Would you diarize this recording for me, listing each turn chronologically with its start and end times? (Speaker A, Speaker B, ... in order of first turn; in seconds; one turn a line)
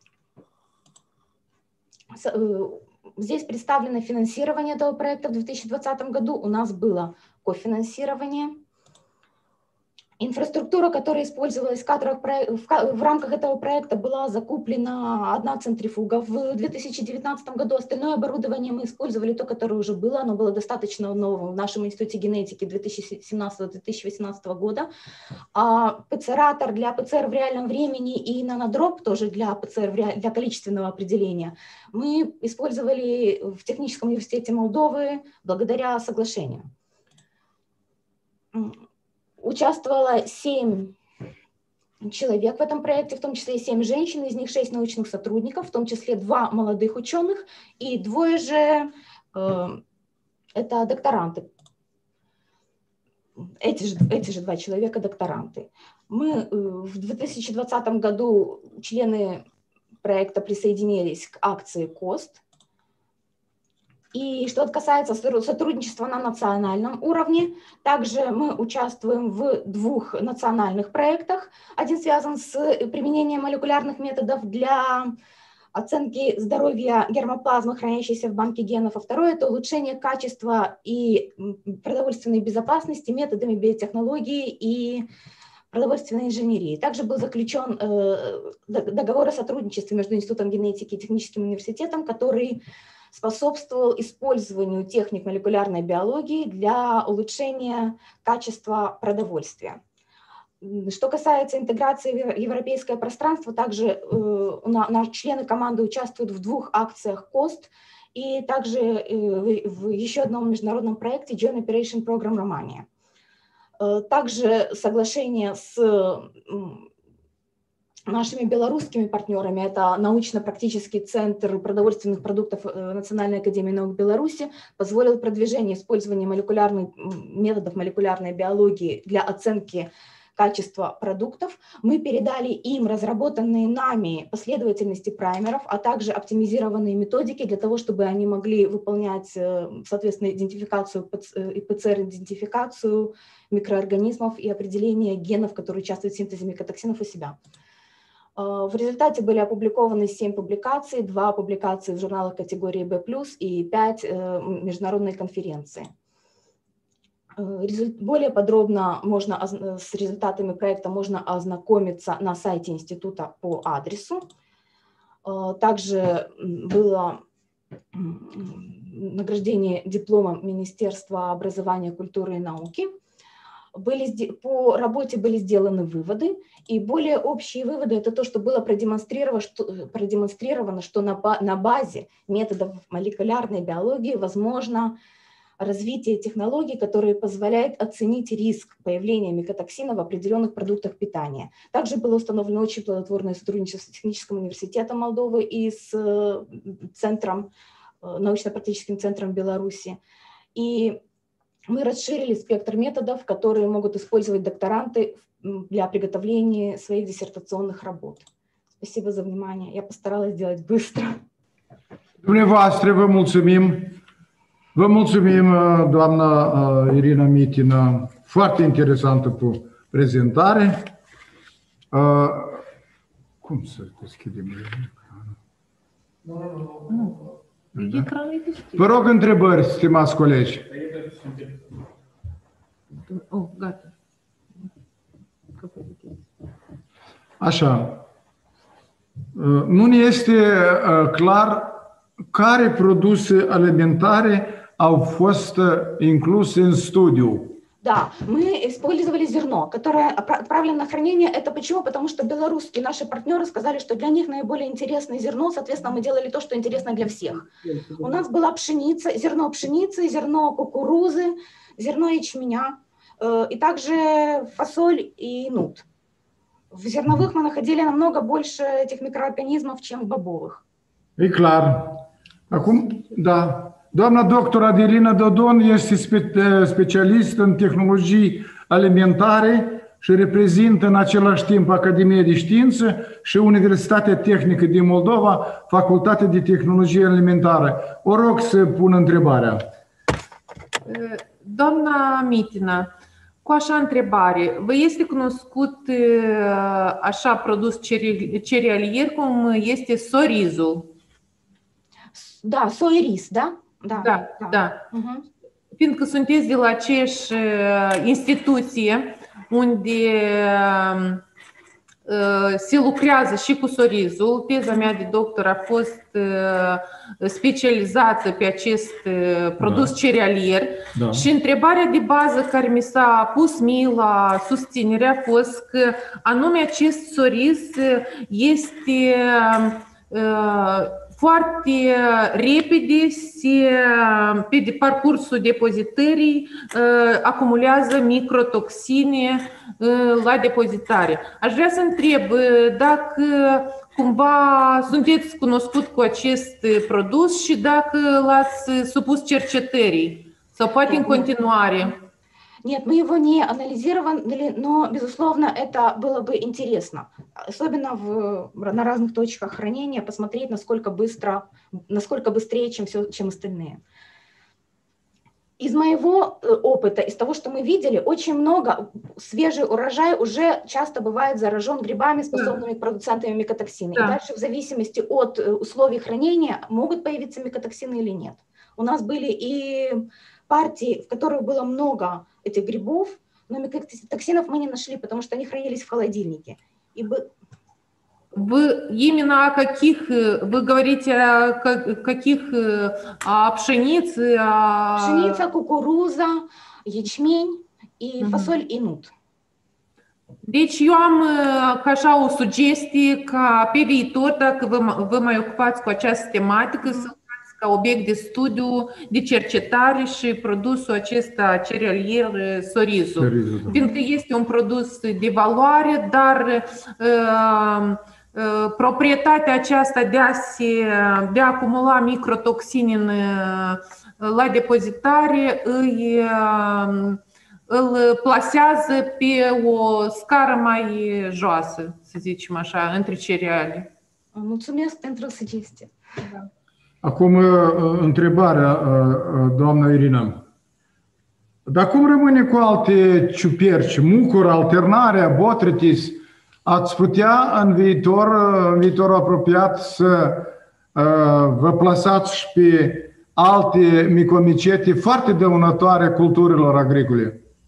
Speaker A: 2.1-8.6
Speaker A: 10.2-24.9
Speaker A: 25.6-36.7
Speaker A: 38.5-38.8
Speaker A: 39.4-40.9
Speaker A: 42.0-49.8
Speaker A: 50.5-51.5
Speaker A: 53.4-59.4
Speaker A: 60.0-62.4
Speaker A: 64.1-75.2
Speaker A: 75.7-85.1
Speaker A: 85.7-92.6
Speaker A: 93.1-99.8
Speaker A: 100.6-112.9
Speaker A: 113.8-116.9
Speaker A: 118.1-147.4
Speaker A: 148.4-155.9
Speaker A: 157.4-164.2
Speaker A: 165.2-167.2
Speaker A: 167.9-172.9
Speaker A: 173.8-185.0
Speaker A: 185.6-197.5
Speaker A: 198.0-200.0
Speaker A: 200.6-201.0
Speaker A: 201.7-208.3
Speaker A: 208.8-211.2
Speaker B: 212.2-214.0
Speaker B: 214.8-220.9
Speaker B: 221.9-222.6
Speaker B: 223.4-225.3
Speaker C: 226.4-227.2
Speaker C: 227.8-228.8
Speaker B: 227.8-228.1
Speaker B: 228.8-230.7
Speaker C: 233.1-233.9
Speaker C: 235.6-236.2
Speaker B: 237.4-238.0
Speaker B: 239.3-247.6
Speaker A: 247.8-265.8
Speaker A: 266.7-270.6
Speaker B: 271.2-289.6
Speaker C: 290.9-292.9
Speaker C: 293.4-300.9
Speaker A: 302.2-305.2
Speaker C: 304.0-304.9
Speaker C: 305.8-311.2
Speaker C: 312.1-351.9
Speaker B: 319.6-319.9
Speaker B: 320.9-321.3
Speaker A: 350.9-351.3
Speaker A: 352.6-363.8
Speaker A: 365.6-387.3
Speaker C: 388.4-395.4
Speaker A: 395.0-399.1
Speaker C: 398.2-398.5
Speaker C: 400.5-433.9
Speaker B: 413.2-413.8
Speaker A: 434.3-435.9
Speaker B: 437.0-440.4
Speaker B: 441.7-457.4